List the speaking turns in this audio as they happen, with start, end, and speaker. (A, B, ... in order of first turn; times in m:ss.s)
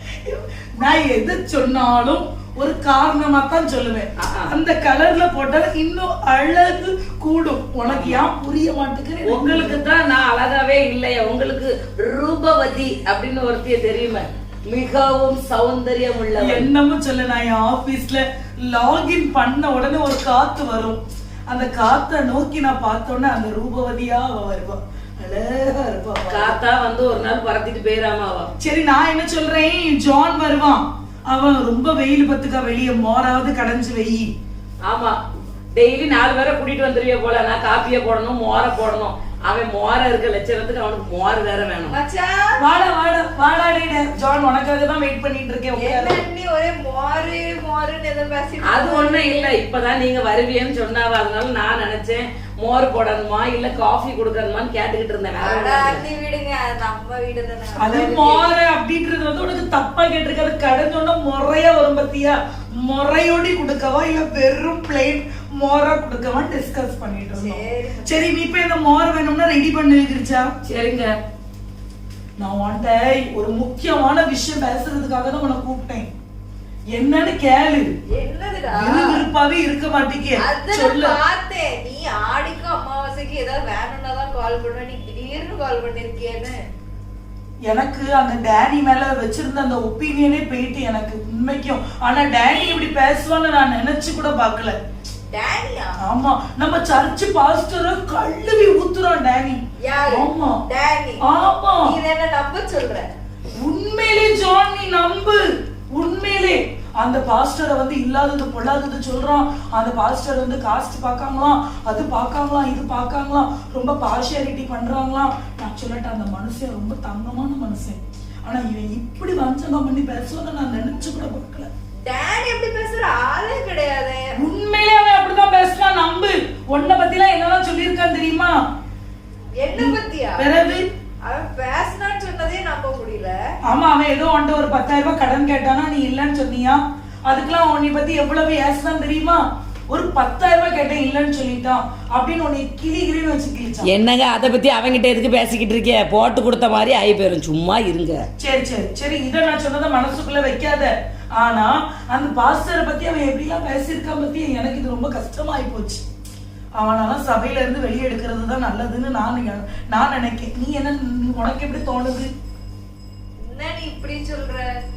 0:00.2-0:09.8 A
0:04.2-0:04.5 B
0:07.8-0:08.2 B
0:09.2-0:16.7 B
0:16.4-0:26.6 A
0:26.3-0:28.5 B
0:28.6-0:34.3 A
0:34.9-0:35.2 B
0:35.8-0:42.0 B
0:41.9-0:42.6 C
0:42.6-0:46.2 A
0:45.8-0:49.5 C
0:48.6-0:56.0 B
0:55.4-0:58.5 C
0:57.8-1:10.5 A
1:07.4-1:08.2 C
1:10.6-1:11.1 B
1:12.4-1:16.1 A
1:16.9-1:17.9 A
1:18.1-1:19.2 C
1:18.7-1:21.2 A
1:20.4-1:26.6 C
1:27.6-1:34.8 A
1:35.3-1:36.0 C
1:36.0-1:40.6 A
1:39.8-1:41.2 C
1:41.2-1:42.0 A
1:41.8-1:43.1 C
1:43.6-1:45.4 A
1:45.9-2:01.7 A
2:02.0-2:04.3 C
2:04.4-2:08.5 A
2:09.6-2:10.5 C
2:09.7-2:10.8 A
2:11.2-2:13.4 C
2:13.6-2:23.9 A
2:23.8-2:28.2 B
2:28.4-2:36.0 A
2:36.8-2:42.3 A
2:43.4-2:44.6 C